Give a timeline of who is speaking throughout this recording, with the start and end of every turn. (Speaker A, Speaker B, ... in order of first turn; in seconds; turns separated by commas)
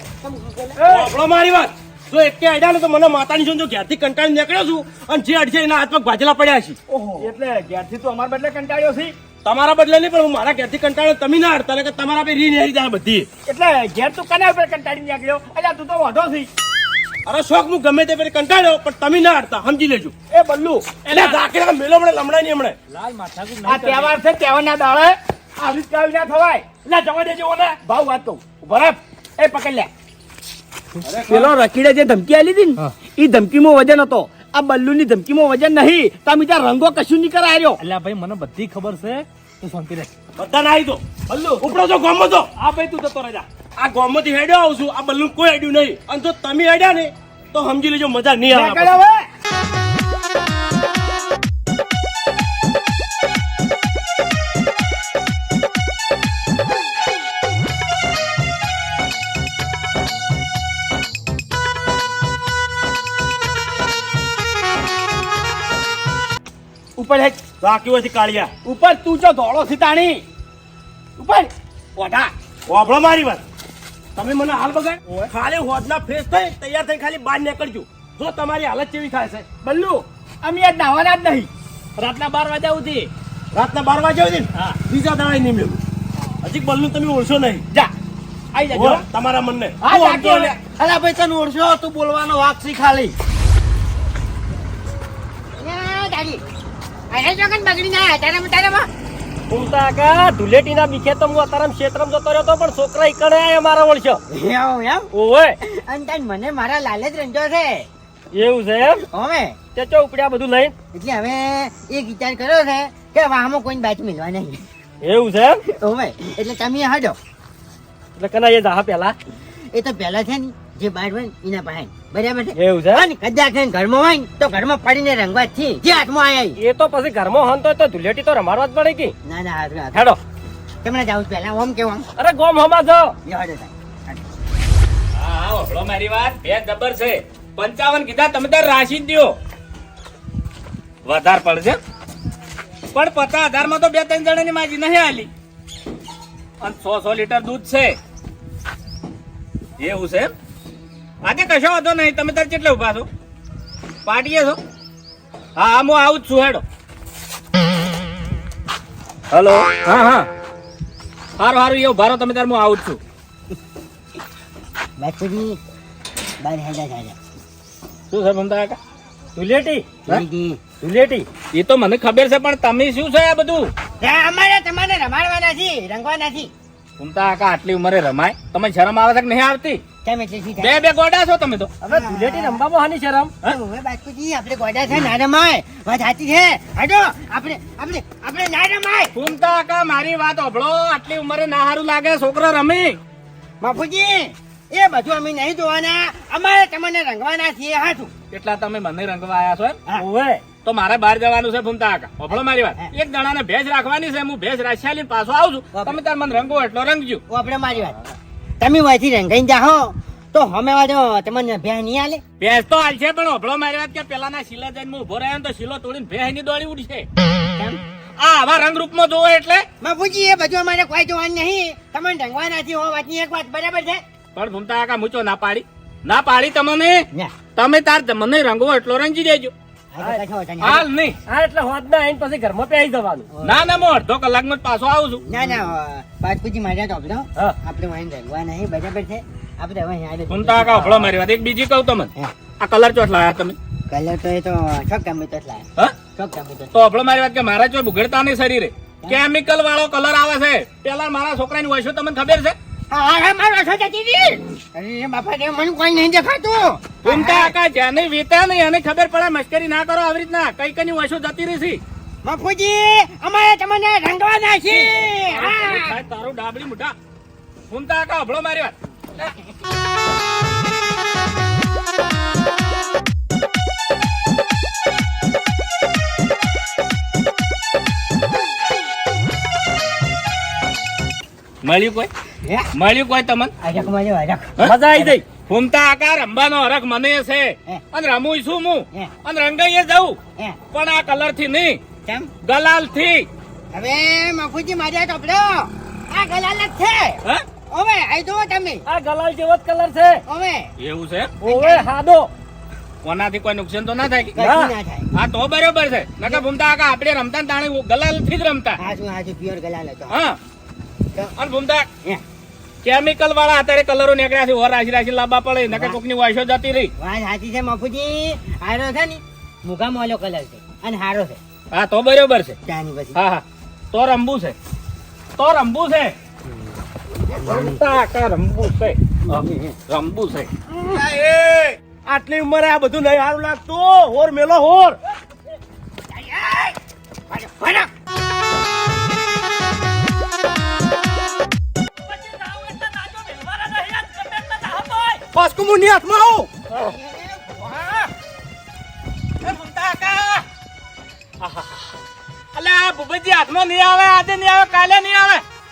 Speaker A: 0.2-0.6, Speaker B: 0.8-1.1, Speaker C: 0.8-6.8, Speaker B: 6.9-9.1, Speaker C: 9.4-13.3, Speaker B: 13.5-16.5, Speaker C: 17.3-20.1, Speaker B: 20.3-20.9, Speaker A: 21.1-21.4, Speaker C: 21.1-22.8, Speaker A: 22.9-24.1, Speaker B: 23.6-26.7, Speaker A: 26.9-27.8, Speaker B: 27.8-29.9, Speaker C: 31.0-31.5, Speaker B: 31.3-37.8, Speaker A: 37.8-40.1, Speaker C: 40.4-41.1, Speaker A: 41.3-41.6, Speaker C: 41.6-42.5, Speaker A: 42.6-43.5, Speaker C: 43.8-49.0, Speaker B: 48.5-49.3, Speaker B: 67.0-67.4, Speaker C: 67.5-68.6, Speaker B: 68.6-70.2, Speaker B: 71.2-72.3, Speaker C: 72.7-73.4, Speaker C: 74.2-79.6, Speaker B: 79.6-81.5, Speaker D: 82.0-83.1, Speaker C: 83.5-85.8, Speaker C: 86.4-87.7, Speaker B: 88.5-89.0, Speaker C: 88.7-90.5, Speaker B: 89.8-90.8, Speaker E: 95.6-96.4, Speaker E: 97.1-98.9, Speaker F: 99.5-104.2, Speaker E: 104.3-105.1, Speaker F: 105.1-105.6, Speaker E: 105.6-107.9, Speaker F: 108.3-109.0, Speaker E: 109.1-109.6, Speaker F: 109.8-110.7, Speaker E: 110.9-114.6, Speaker F: 115.0-115.6, Speaker E: 115.7-117.2, Speaker F: 118.2-119.2, Speaker E: 119.7-126.6, Speaker F: 122.5-123.1, Speaker F: 126.6-129.1, Speaker E: 129.2-130.0, Speaker F: 129.9-130.2, Speaker E: 130.8-132.1, Speaker F: 132.2-133.1, Speaker E: 133.2-134.2, Speaker D: 135.2-139.3, Speaker D: 141.1-141.8, Speaker D: 142.9-145.3, Speaker D: 146.6-148.0, Speaker D: 149.8-150.3, Speaker D: 151.2-153.1, Speaker D: 154.1-154.6, Speaker D: 155.6-156.6, Speaker D: 159.3-160.3, Speaker D: 161.4-163.0, Speaker E: 165.0-165.6, Speaker E: 166.4-167.2, Speaker D: 168.1-168.8, Speaker F: 169.4-169.9, Speaker E: 170.1-170.6, Speaker F: 170.7-171.3, Speaker D: 171.5-173.7, Speaker E: 174.0-176.5, Speaker D: 177.0-179.8, Speaker E: 180.0-180.8, Speaker D: 180.6-181.7, Speaker F: 181.8-183.3, Speaker E: 181.8-182.6, Speaker E: 183.4-189.1, Speaker D: 189.2-193.0, Speaker E: 193.6-198.1, Speaker D: 198.3-199.8, Speaker F: 200.0-200.4, Speaker D: 200.6-207.2, Speaker E: 202.3-202.9, Speaker E: 207.3-212.2, Speaker D: 212.4-217.1, Speaker D: 218.2-219.7, Speaker E: 219.8-224.0, Speaker D: 224.3-229.5, Speaker E: 229.9-230.9, Speaker D: 230.6-231.2, Speaker F: 231.3-233.3, Speaker E: 233.3-233.8, Speaker D: 233.4-235.2, Speaker E: 235.3-241.1, Speaker D: 240.3-243.6, Speaker E: 243.9-246.7, Speaker D: 246.7-252.6, Speaker E: 252.9-257.6, Speaker D: 257.1-261.8, Speaker E: 262.2-265.9, Speaker D: 264.7-266.9, Speaker D: 267.7-269.3, Speaker D: 281.6-282.1, Speaker D: 282.7-283.5, Speaker E: 283.6-285.1, Speaker F: 284.6-285.2, Speaker D: 285.5-290.2, Speaker D: 290.7-291.8, Speaker E: 292.1-292.3, Speaker D: 292.4-293.3, Speaker E: 293.7-298.8, Speaker F: 298.9-300.2, Speaker E: 300.3-300.7, Speaker D: 300.8-301.3, Speaker F: 301.4-302.3, Speaker E: 301.4-301.9, Speaker D: 303.0-304.4, Speaker E: 304.4-305.1, Speaker F: 304.4-304.7, Speaker D: 305.1-308.8, Speaker E: 308.8-310.2, Speaker D: 310.1-310.4, Speaker D: 311.4-311.9, Speaker D: 312.8-316.9, Speaker E: 315.7-316.0, Speaker E: 317.0-321.4, Speaker D: 321.7-322.6, Speaker E: 322.7-323.2, Speaker D: 323.2-324.6, Speaker D: 325.4-326.1, Speaker E: 327.3-327.8, Speaker D: 327.4-330.5, Speaker E: 329.3-329.7, Speaker C: 330.9-335.0, Speaker E: 336.1-336.8, Speaker E: 337.3-337.9, Speaker F: 342.0-345.3, Speaker C: 345.5-346.5, Speaker E: 346.7-348.1, Speaker D: 349.4-350.4, Speaker D: 352.6-355.4